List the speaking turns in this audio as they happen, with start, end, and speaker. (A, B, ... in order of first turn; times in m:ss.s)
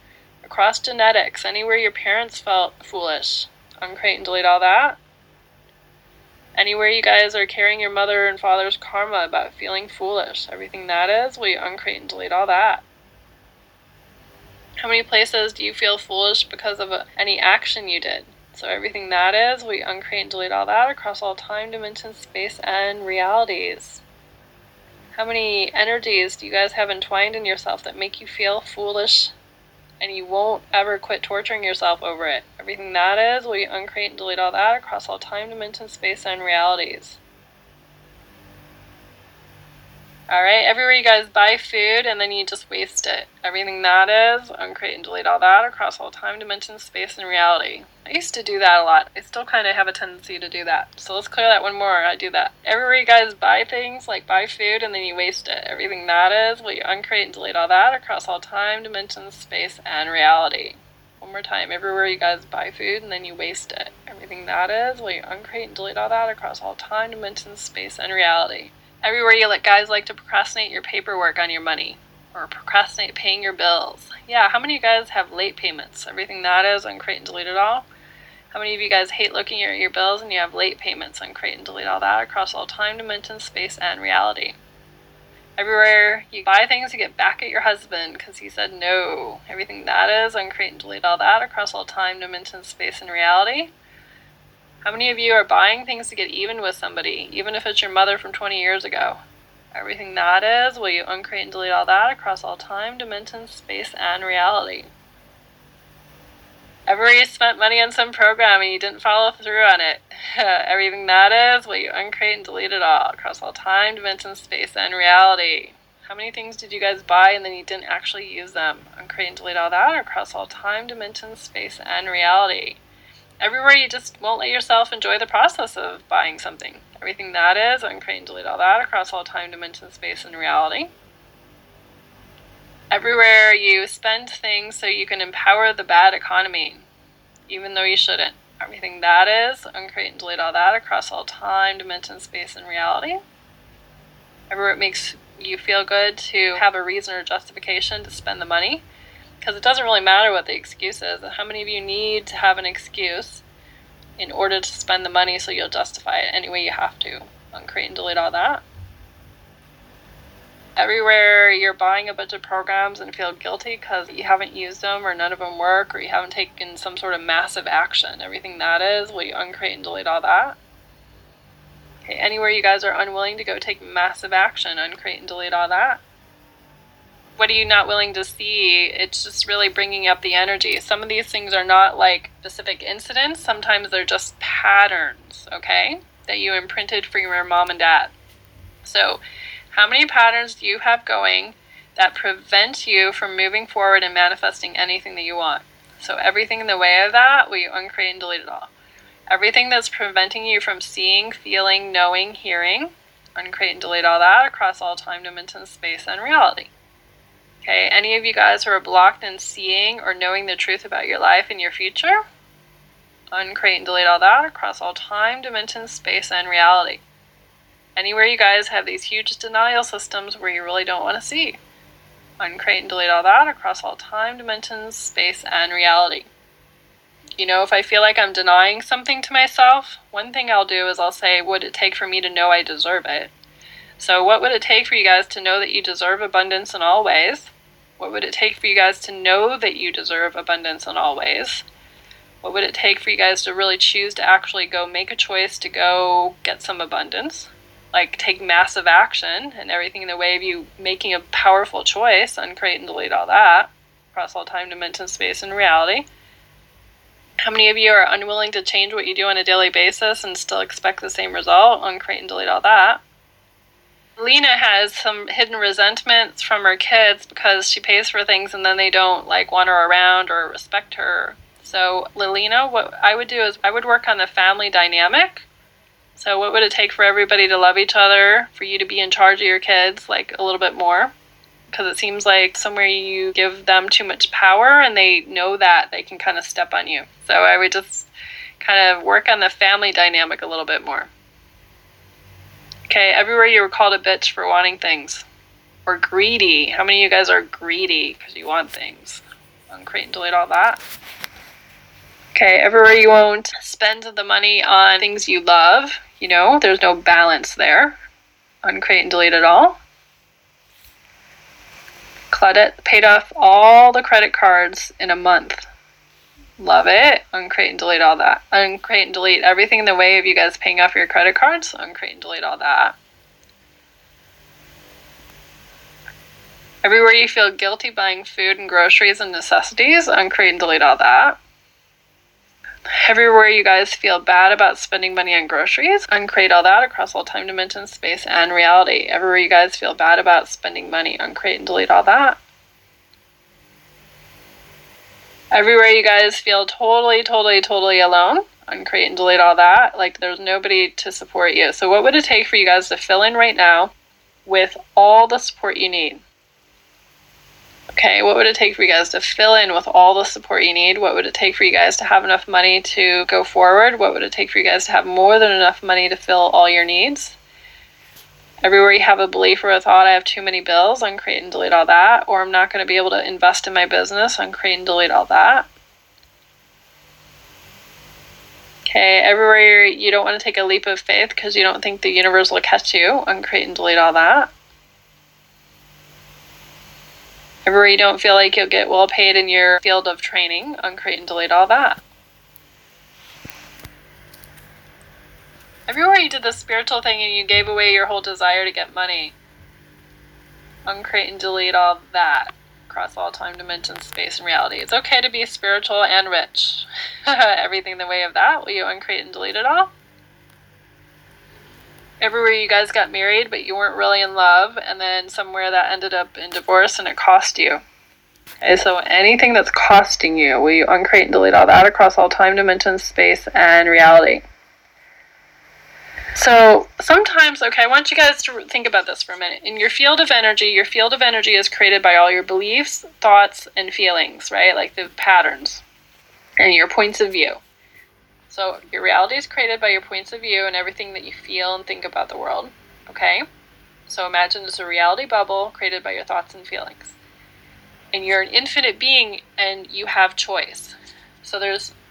0:00.4-0:05.0 A
0:06.6-0:12.8 A
0:14.8-0:24.0 A
0:25.2-0:29.3 A
0:30.0-0:37.2 A
0:40.3-1:17.9 A
1:18.5-1:24.6 A
1:25.6-1:33.7 A
1:34.8-1:39.2 A
1:39.7-1:44.9 A
1:46.9-2:02.8 A
2:03.4-2:10.9 A
2:12.9-2:16.8 A
2:17.5-2:23.2 A
2:24.5-2:28.8 A
2:29.4-2:33.4 A
2:34.2-2:38.6 A
2:40.8-2:50.6 A
2:52.0-2:56.0 A
2:57.4-3:08.1 A
3:08.8-3:09.2 A
3:09.7-3:18.7 A
3:19.3-3:26.7 A
3:27.6-3:32.2 A
3:33.3-3:37.0 A
3:38.0-3:41.6 A
3:42.4-3:46.3 A
3:47.4-3:53.3 A
3:54.0-4:01.7 A
4:02.4-4:16.1 A
4:17.4-4:23.0 A
4:24.2-4:35.5 A
4:36.2-4:41.1 A
4:41.7-4:51.1 A
4:52.9-4:55.3 A
4:55.9-5:00.8 A
5:02.4-5:08.0 A
5:08.6-5:09.8 A
5:12.3-5:15.7 A
5:16.6-5:23.0 A
5:26.8-5:31.4 A
5:33.0-5:42.4 A
5:45.5-5:53.9 A
5:54.4-5:56.2 A
5:57.9-6:07.4 A
6:08.6-6:15.7 A
6:18.9-6:24.5 A
6:27.7-6:32.0 A
6:35.9-6:39.4 A
6:40.9-6:49.9 A
6:52.2-6:57.8 A
6:58.6-7:04.4 A
7:06.4-7:15.8 A
7:16.6-7:17.6 A
7:18.5-7:23.4 A
7:24.1-7:27.2 A
7:28.1-7:32.0 A